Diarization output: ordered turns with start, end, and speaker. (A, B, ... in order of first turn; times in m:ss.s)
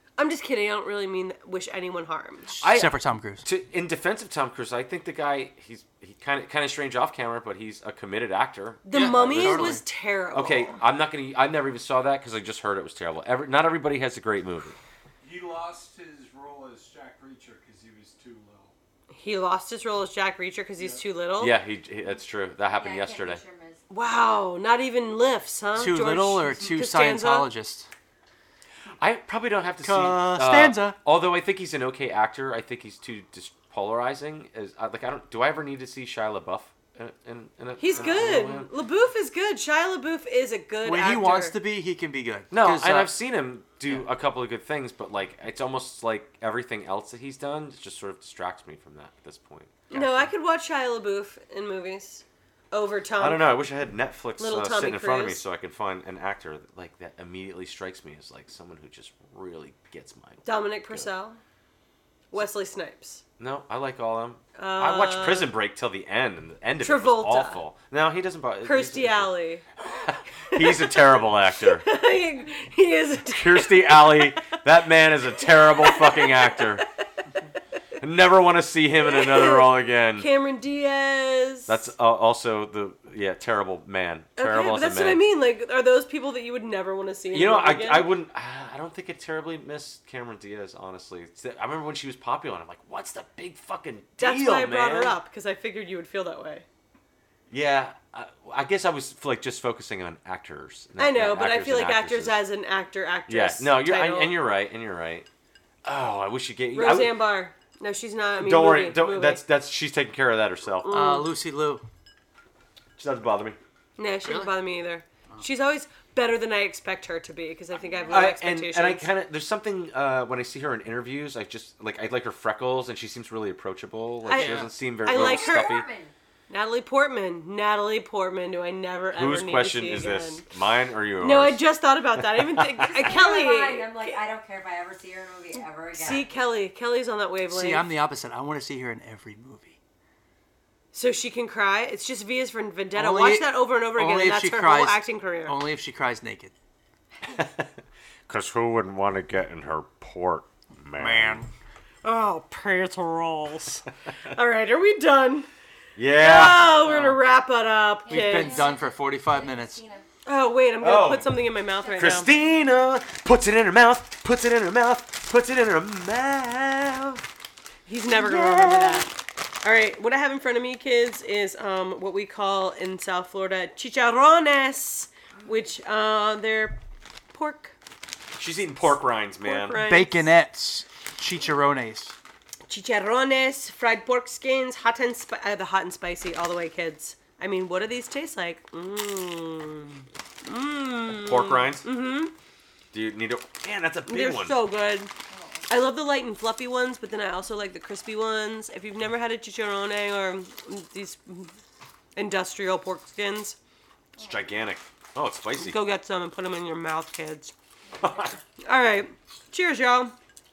0:00.2-0:02.6 A
0:02.6-0:03.5 B
0:02.6-0:09.8 C
0:08.8-0:10.8 A
0:08.9-0:09.8 B
0:10.3-0:14.8 C
0:15.2-0:18.7 D
0:19.1-0:21.5 A
0:21.4-0:23.4 C
0:22.7-0:23.8 E
0:23.9-0:27.5 A
0:25.8-0:27.9 B
0:29.0-0:38.7 C
0:29.8-0:31.0 B
0:37.8-0:41.6 A
0:40.8-0:43.1 B
0:42.5-0:50.2 C
0:49.9-0:53.5 A
0:53.2-1:01.1 C
0:54.4-0:55.4 A
1:00.4-1:01.4 A
1:02.3-1:03.2 A
1:03.4-1:09.3 C
1:04.6-1:05.5 A
1:06.8-1:07.6 A
1:08.6-1:09.6 A
1:10.0-1:11.8 C
1:10.5-1:14.5 A
1:13.3-1:16.8 C
1:15.4-1:16.7 A
1:18.0-1:20.3 C
1:19.0-1:21.8 A
1:21.7-1:25.2 C
1:24.4-1:28.1 A
1:27.3-1:35.2 C
1:34.2-1:36.6 A
1:37.5-1:42.4 C
1:41.0-1:44.4 A
1:43.3-1:45.3 C
1:45.8-1:47.2 C
1:46.7-1:49.4 A
1:48.4-1:50.9 C
1:50.8-1:51.3 A
1:50.9-1:51.8 B
1:53.0-1:53.6 C
1:54.0-1:59.1 A
1:54.2-1:54.6 B
1:57.8-1:58.3 E
1:58.1-2:05.8 C
2:04.3-2:05.8 A
2:04.3-2:04.7 B
2:05.0-2:06.1 E
2:06.5-2:10.4 A
2:09.1-2:11.6 C
2:11.2-2:14.2 A
2:12.1-2:13.0 C
2:12.9-2:16.4 E
2:15.9-2:17.9 A
2:17.5-2:19.8 B
2:20.9-2:25.6 A
2:22.9-2:26.5 B
2:27.2-2:27.7 C
2:28.3-2:31.4 C
2:31.0-2:31.5 B
2:32.0-2:35.5 A
2:36.0-2:36.7 C
2:36.2-2:38.6 A
2:36.8-2:37.2 B
2:38.0-2:40.0 E
2:38.1-2:39.8 B
2:40.2-2:42.3 A
2:40.8-2:41.3 C
2:41.8-2:42.8 E
2:42.0-2:47.2 C
2:47.9-2:56.8 A
2:48.1-2:49.1 C
2:57.3-2:57.7 A
2:58.4-2:59.8 C
2:59.4-3:00.3 A
2:59.8-3:02.1 B
3:02.7-3:12.3 A
3:11.1-3:11.8 C
3:12.9-3:14.6 C
3:14.0-3:15.1 A
3:15.3-3:15.7 E
3:15.7-3:21.5 A
3:22.2-3:23.6 A
3:24.2-3:24.5 E
3:24.2-3:25.8 C
3:25.5-3:27.5 A
3:28.0-3:28.3 E
3:28.0-3:28.3 C
3:28.6-3:30.1 A